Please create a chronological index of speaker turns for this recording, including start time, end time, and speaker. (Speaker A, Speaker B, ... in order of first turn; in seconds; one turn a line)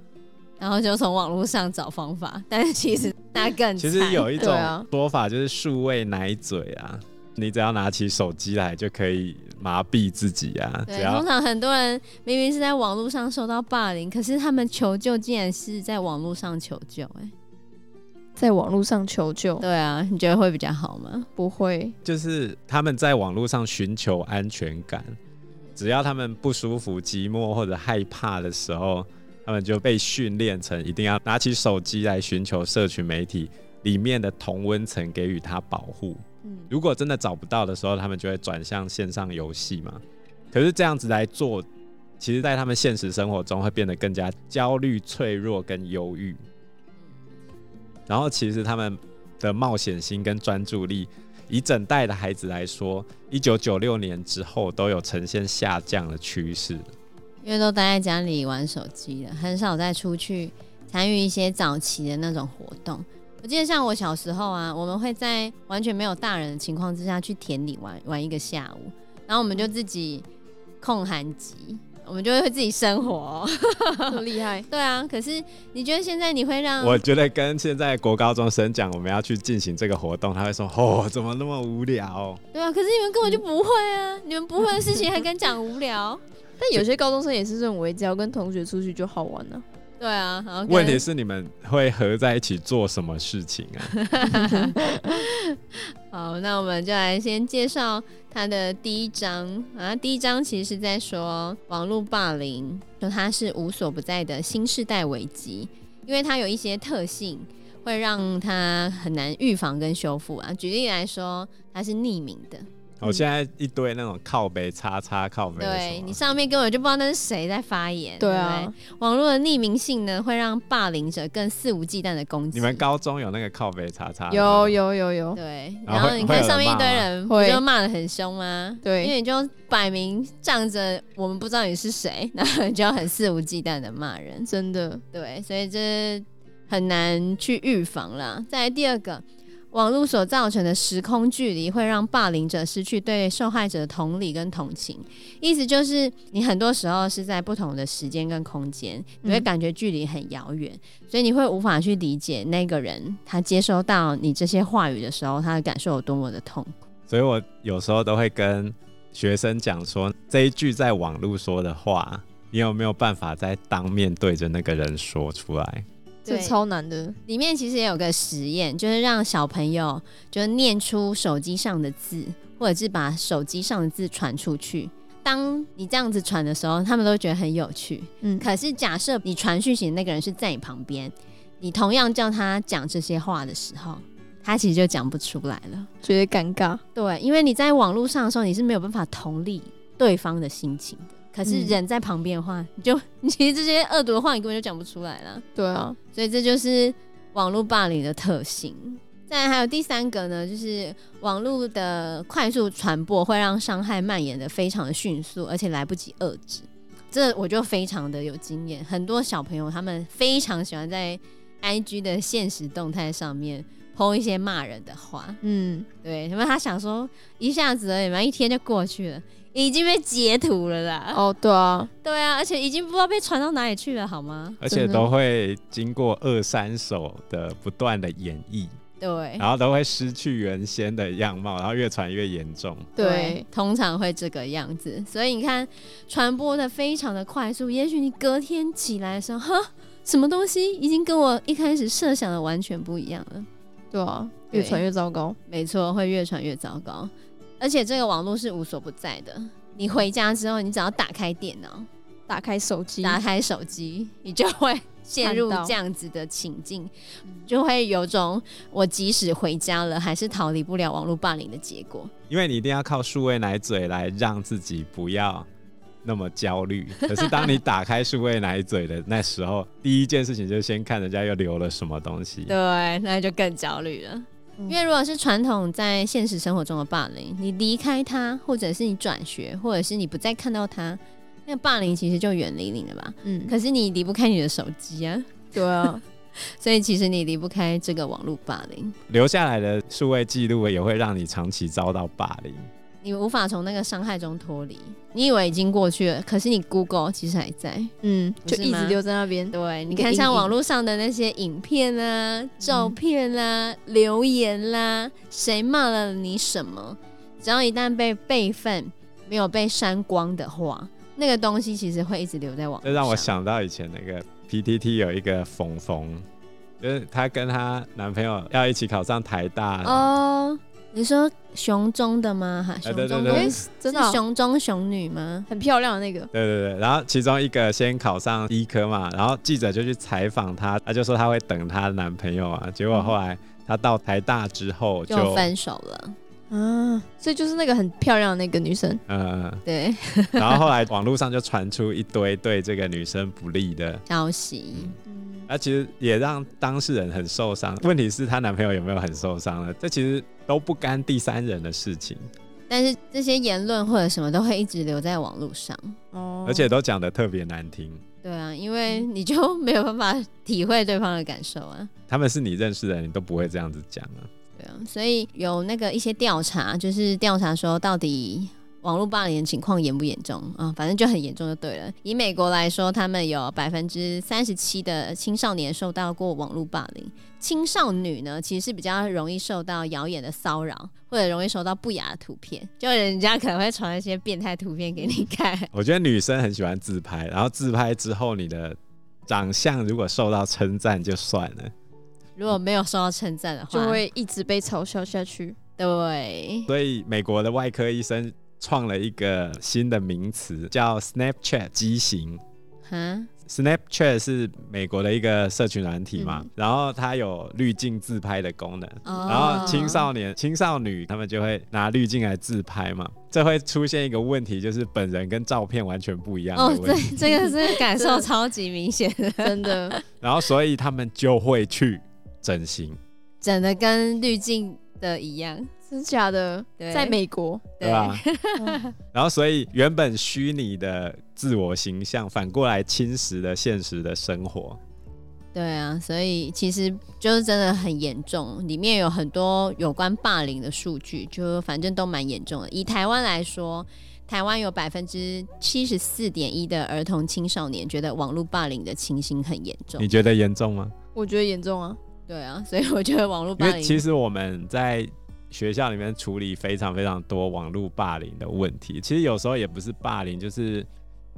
Speaker A: 0.6-4.5
Speaker B: 3.8-11.3
Speaker C: 4.4-4.9
Speaker A: 10.9-17.3
Speaker C: 18.4-19.6
Speaker A: 19.6-21.3
Speaker C: 21.4-21.9
Speaker B: 22.0-25.2
Speaker B: 25.8-41.7
Speaker C: 36.4-36.7
Speaker B: 42.2-46.4
Speaker B: 48.1-56.8
Speaker A: 57.4-70.3
Speaker A: 70.8-77.0
Speaker C: 74.1-74.7
Speaker B: 76.8-82.4
Speaker A: 82.5-86.2
Speaker C: 86.6-89.6
Speaker A: 90.0-91.0
Speaker B: 90.7-93.9
Speaker A: 93.9-112.7
Speaker B: 113.0-116.2
Speaker A: 115.6-122.8
Speaker C: 118.2-118.7
Speaker B: 122.5-124.8
Speaker C: 124.3-125.4
Speaker A: 125.3-134.5
Speaker B: 125.9-127.1
Speaker C: 127.3-127.6
Speaker C: 128.8-129.1
Speaker C: 134.5-135.0
Speaker A: 135.1-156.9
Speaker B: 157.1-165.9
Speaker C: 166.2-167.2
Speaker A: 166.3-166.6
Speaker A: 167.3-185.9
Speaker C: 178.2-178.5
Speaker C: 186.0-186.8
Speaker A: 186.9-195.4
Speaker C: 191.4-191.8
Speaker C: 195.6-196.0
Speaker A: 196.1-215.4
Speaker C: 215.4-215.9
Speaker A: 216.0-221.2
Speaker C: 221.1-221.9
Speaker A: 222.0-224.6
Speaker B: 224.6-228.7
Speaker C: 224.7-225.1
Speaker A: 229.0-229.5
Speaker B: 229.4-232.9
Speaker C: 233.0-233.4
Speaker A: 233.0-243.5
Speaker C: 243.9-245.4
Speaker A: 244.5-244.8
Speaker A: 245.5-251.9
Speaker C: 252.3-253.2
Speaker A: 253.0-256.9
Speaker C: 255.2-255.8
Speaker A: 257.5-262.1
Speaker B: 262.3-265.5
Speaker B: 266.0-272.5
Speaker A: 267.0-267.5
Speaker A: 272.5-285.5
Speaker C: 283.2-283.5
Speaker C: 285.5-286.0
Speaker A: 286.4-289.0
Speaker B: 289.1-292.7
Speaker A: 293.0-297.9
Speaker C: 298.0-300.5
Speaker A: 298.4-299.0
Speaker A: 299.5-313.3
Speaker C: 302.6-303.0
Speaker B: 312.8-316.2
Speaker B: 316.8-320.1
Speaker A: 319.8-325.5
Speaker B: 322.8-323.6
Speaker C: 323.3-324.2
Speaker C: 325.5-326.3
Speaker B: 326.3-335.5
Speaker A: 335.1-336.2
Speaker C: 336.5-339.0
Speaker B: 339.1-339.6
Speaker A: 339.6-340.7
Speaker B: 340.4-344.0
Speaker A: 344.1-345.0
Speaker C: 345.1-345.5
Speaker B: 345.5-352.3
Speaker A: 352.7-356.0
Speaker C: 356.1-356.7
Speaker B: 356.4-358.0
Speaker A: 358.2-361.9
Speaker B: 362.1-364.3
Speaker A: 364.6-385.7
Speaker B: 385.7-391.7
Speaker A: 392.4-394.0
Speaker C: 393.7-395.6
Speaker A: 395.8-396.7
Speaker B: 396.7-402.4
Speaker A: 402.9-403.3
Speaker B: 403.5-417.2
Speaker C: 406.2-406.5
Speaker A: 409.1-410.0
Speaker C: 409.1-410.0
Speaker A: 416.6-420.0
Speaker C: 417.4-418.3
Speaker C: 419.4-420.0
Speaker B: 420.2-423.0
Speaker A: 423.4-425.7
Speaker C: 425.9-427.7
Speaker A: 426.8-427.2
Speaker A: 427.8-428.9
Speaker B: 427.8-428.2
Speaker B: 429.1-434.8
Speaker A: 435.5-450.1
Speaker B: 450.0-450.9
Speaker C: 451.1-452.0
Speaker A: 452.3-454.0
Speaker B: 453.6-460.9